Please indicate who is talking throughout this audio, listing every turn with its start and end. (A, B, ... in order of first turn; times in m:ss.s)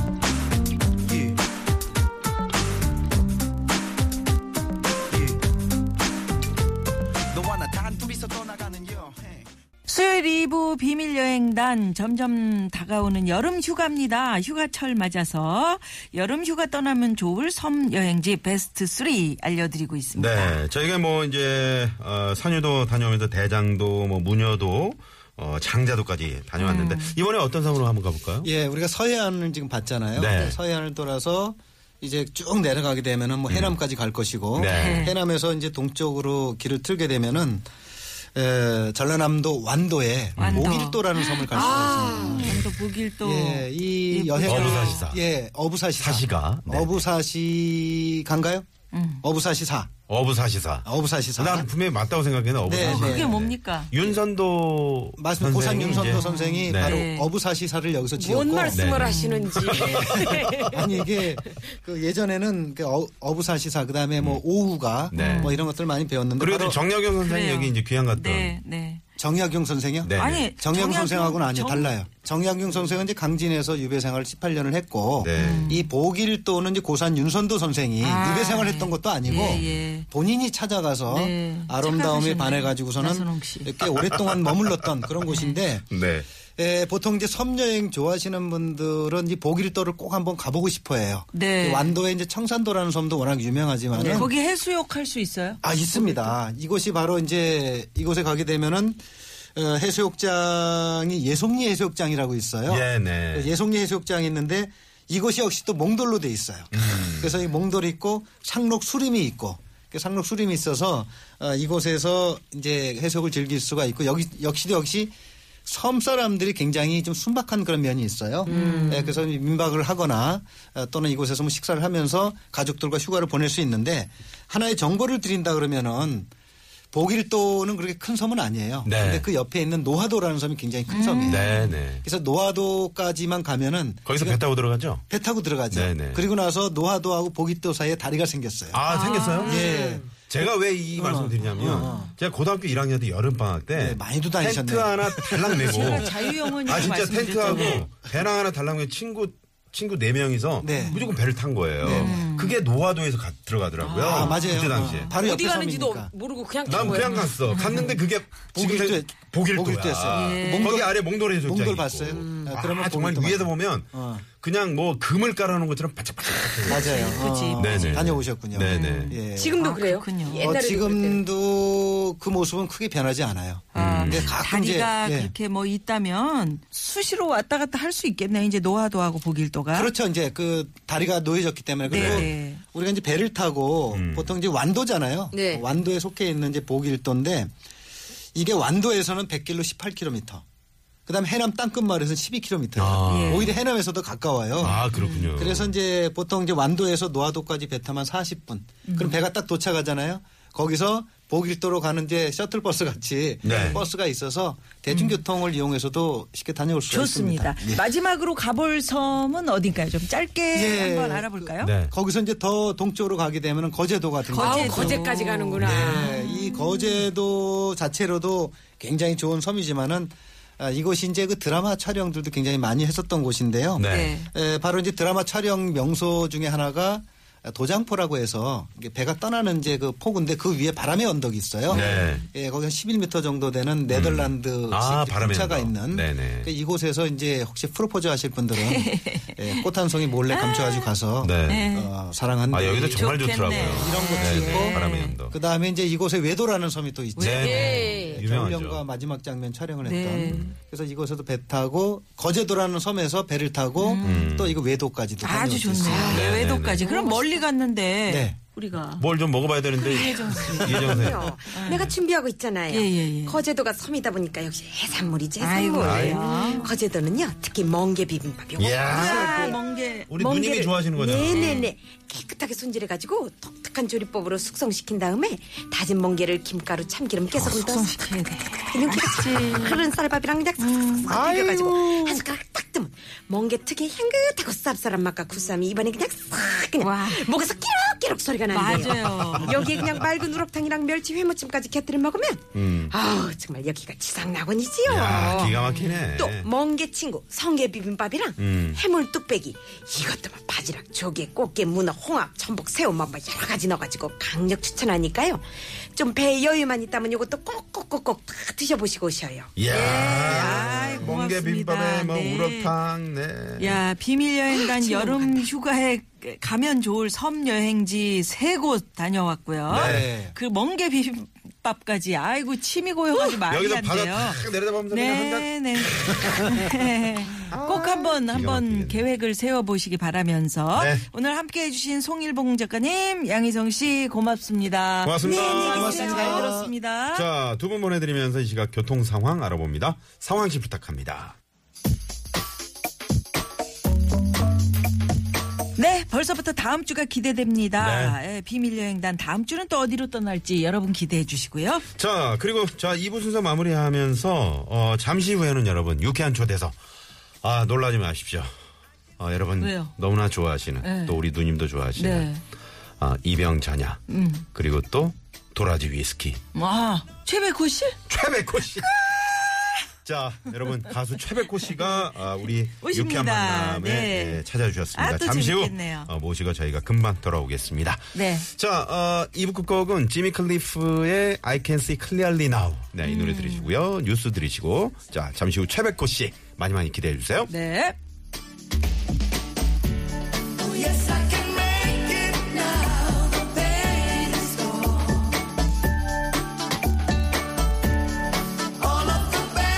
0:01.1-0:01.4 A
0:05.1-0:05.4 A
0:07.3-0:09.5 A
0:09.8-0:20.6 B
0:20.1-0:28.5 C
0:26.6-0:27.2 B
0:28.4-0:37.7 D
0:30.1-0:30.6 C
0:33.5-0:33.8 C
0:34.5-0:35.1 C
0:34.6-0:35.2 B
0:38.3-0:42.7 D
0:40.4-0:40.8 C
0:40.4-0:45.1 B
0:41.5-0:42.6 E
0:43.2-0:48.7 D
0:44.4-0:45.2 C
0:46.0-0:47.0 C
0:48.9-0:49.2 B
0:49.2-0:49.9 D
0:50.1-0:57.0 C
0:50.8-0:51.7 D
0:52.6-0:53.4 D
0:52.7-0:53.9 B
0:55.2-0:58.9 D
0:55.8-0:57.3 B
0:58.2-1:01.7 E
0:58.7-1:00.6 C
0:58.9-0:59.6 B
0:59.8-1:06.8 D
1:05.1-1:05.6 C
1:05.1-1:05.6 B
1:06.4-1:08.6 C
1:07.2-1:09.0 B
1:09.2-1:25.9 D
1:10.0-1:10.5 C
1:10.1-1:11.9 B
1:15.2-1:15.7 C
1:15.3-1:15.9 B
1:18.0-1:20.1 B
1:19.3-1:19.7 C
1:21.1-1:23.7 B
1:25.3-1:25.6 B
1:25.9-1:26.3 C
1:26.5-1:34.4 D
1:31.3-1:31.9 B
1:33.9-1:34.3 E
1:34.1-1:36.3 B
1:35.6-1:39.0 D
1:39.6-1:55.1 D
1:42.7-1:43.5 C
1:46.7-1:47.4 C
1:55.6-2:06.3 D
1:58.4-1:59.2 B
1:58.5-1:59.1 E
2:06.9-2:14.4 D
2:08.8-2:09.3 C
2:10.9-2:11.7 B
2:11.2-2:12.0 C
2:14.0-2:15.0 C
2:15.1-2:18.8 D
2:15.7-2:16.3 C
2:18.7-2:19.6 C
2:18.9-2:20.1 E
2:19.1-2:19.8 B
2:19.4-2:20.1 D
2:20.2-2:35.1 C
2:20.9-2:22.1 D
2:21.8-2:22.1 B
2:23.7-2:26.1 D
2:25.6-2:27.9 B
2:27.5-2:27.8 D
2:30.6-2:31.1 D
2:30.7-2:31.0 B
2:31.8-2:32.2 D
2:31.8-2:32.6 B
2:33.8-2:35.2 B
2:34.0-2:36.1 D
2:35.1-2:37.3 E
2:36.6-2:49.2 C
2:36.8-2:38.0 B
2:38.5-2:44.2 D
2:40.1-2:40.8 B
2:42.1-2:42.5 E
2:46.6-2:49.6 D
2:46.7-2:48.1 B
2:48.6-2:50.5 B
2:49.3-2:51.2 E
2:50.4-2:55.3 D
2:53.7-2:59.9 B
2:53.7-2:54.4 C
2:59.7-3:07.5 D
3:01.8-3:02.6 B
3:01.9-3:02.3 C
3:03.9-3:04.4 C
3:05.3-3:05.6 E
3:08.3-3:10.4 D
3:11.1-3:27.8 D
3:12.8-3:13.6 C
3:13.0-3:13.5 B
3:14.6-3:15.7 C
3:14.7-3:15.3 B
3:18.8-3:19.2 B
3:23.4-3:23.8 C
3:23.4-3:23.8 B
3:24.9-3:25.2 B
3:26.9-3:31.7 B
3:30.5-3:35.0 D
3:31.6-3:31.9 C
3:34.2-3:37.0 B
3:34.4-3:36.1 E
3:35.6-4:16.1 D
3:43.8-3:44.2 C
3:43.8-3:44.3 B
3:51.7-3:52.2 B
3:51.7-3:52.3 C
3:53.9-3:56.5 C
3:58.6-3:59.6 B
4:00.3-4:00.9 B
4:01.2-4:01.7 C
4:01.5-4:01.9 B
4:02.5-4:05.4 C
4:02.9-4:05.2 B
4:07.2-4:07.9 B
4:07.2-4:08.8 C
4:07.4-4:08.2 E
4:09.8-4:10.4 B
4:10.3-4:10.5 C
4:13.8-4:14.3 B
4:14.0-4:14.6 C
4:15.2-4:19.0 B
4:15.8-4:17.4 E
4:16.0-4:16.8 C
4:18.1-4:18.4 D
4:19.0-4:21.2 C
4:19.8-4:21.9 B
4:19.8-4:29.6 E
4:22.7-4:23.4 B
4:25.4-4:26.7 B
4:25.8-4:26.3 C
4:28.6-4:29.6 C
4:28.9-4:31.7 B
4:30.1-4:31.7 C
4:31.0-4:38.0 E
4:37.3-4:39.9 B
4:38.7-5:10.8 E
4:40.6-4:41.2 B
4:41.1-4:42.2 C
4:46.8-4:47.3 B
4:48.5-4:49.6 B
4:49.1-4:49.6 C
4:52.5-4:52.9 C
4:54.8-4:56.5 C
4:55.2-4:56.1 B
4:58.4-4:58.8 C
5:09.5-5:13.8 C
5:09.7-5:12.7 B
5:13.6-5:37.3 B
5:14.7-5:15.5 E
5:19.7-5:20.1 C
5:19.7-5:20.4 D
5:23.3-5:26.6 C
5:27.5-5:29.0 C
5:30.7-5:31.0 C
5:35.0-5:36.0 C
5:35.2-5:36.4 E
5:35.6-5:36.7 D
5:37.1-5:41.3 C
5:45.7-5:51.8 B
5:47.8-5:48.2 C
5:51.9-5:56.7 C
5:57.4-5:58.5 C
5:59.2-6:02.3 C
5:59.6-5:59.9 B
6:00.8-6:01.2 B
6:02.0-6:02.4 B
6:03.0-6:04.0 C
6:04.1-6:04.5 B
6:04.5-6:06.4 C
6:06.5-6:08.0 B
6:08.1-6:09.3 C
6:10.0-6:27.5 C
6:12.8-6:16.1 B
6:18.1-6:18.5 B
6:23.0-6:23.7 B
6:27.5-6:28.0 B
6:30.8-6:32.8 B
6:34.0-6:34.7 B